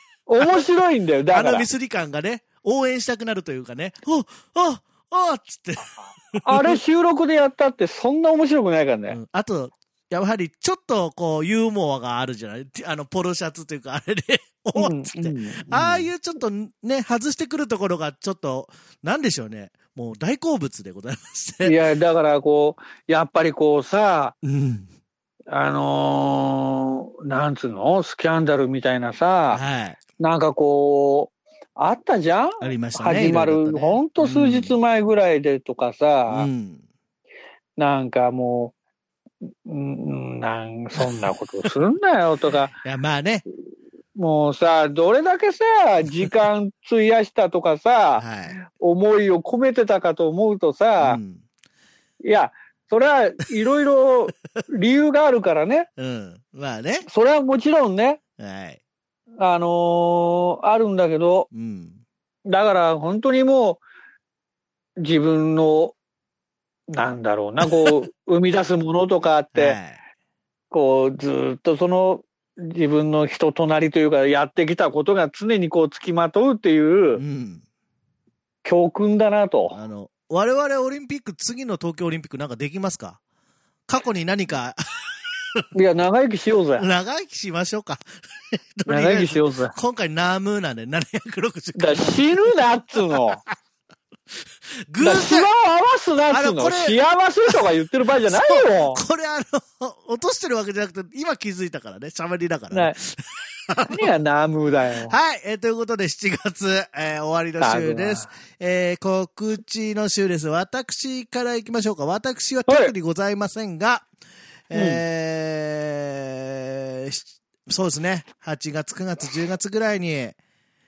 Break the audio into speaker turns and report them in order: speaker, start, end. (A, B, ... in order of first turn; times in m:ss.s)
0:00.3-0:01.7 A
0:01.3-0:06.8 B
0:06.4-0:09.2 A
0:09.1-0:21.8 B
0:14.8-0:16.1 A
0:21.6-0:24.3 A
0:24.4-0:24.9 B
0:25.5-0:29.6 A
0:29.5-0:30.0 B
0:30.2-0:36.5 A
0:32.6-0:34.8 B
0:36.3-0:36.8 B
0:37.8-0:38.7 A
0:39.6-0:42.7 A
0:42.8-0:43.4 B
0:44.2-0:51.2 A
0:48.2-0:48.6 B
0:51.0-0:51.4 B
0:52.2-0:55.9 A
0:56.0-0:57.1 B
0:57.1-0:58.2 A
0:58.4-0:58.8 B
0:59.4-1:01.5 A
1:01.5-1:02.0 B
1:02.5-1:03.8 A
1:05.0-1:06.0 A
1:06.9-1:09.8 A
1:09.6-1:10.0 B
1:10.7-1:17.2 A
1:17.2-1:17.6 B
1:18.6-1:19.8 A
1:19.7-1:23.2 B
1:23.9-1:24.8 B
1:25.7-1:26.8 A
1:26.8-1:32.6 B
1:28.8-1:29.7 A
1:31.8-1:33.4 A
1:34.9-1:35.5 B
1:35.0-1:39.0 A
1:36.3-1:37.6 B
1:38.3-1:44.1 B
1:43.9-1:45.1 A
1:45.0-1:54.0 B
1:47.6-1:48.3 A
1:52.7-1:52.9 A
1:54.7-2:00.4 B
1:54.7-1:55.0 A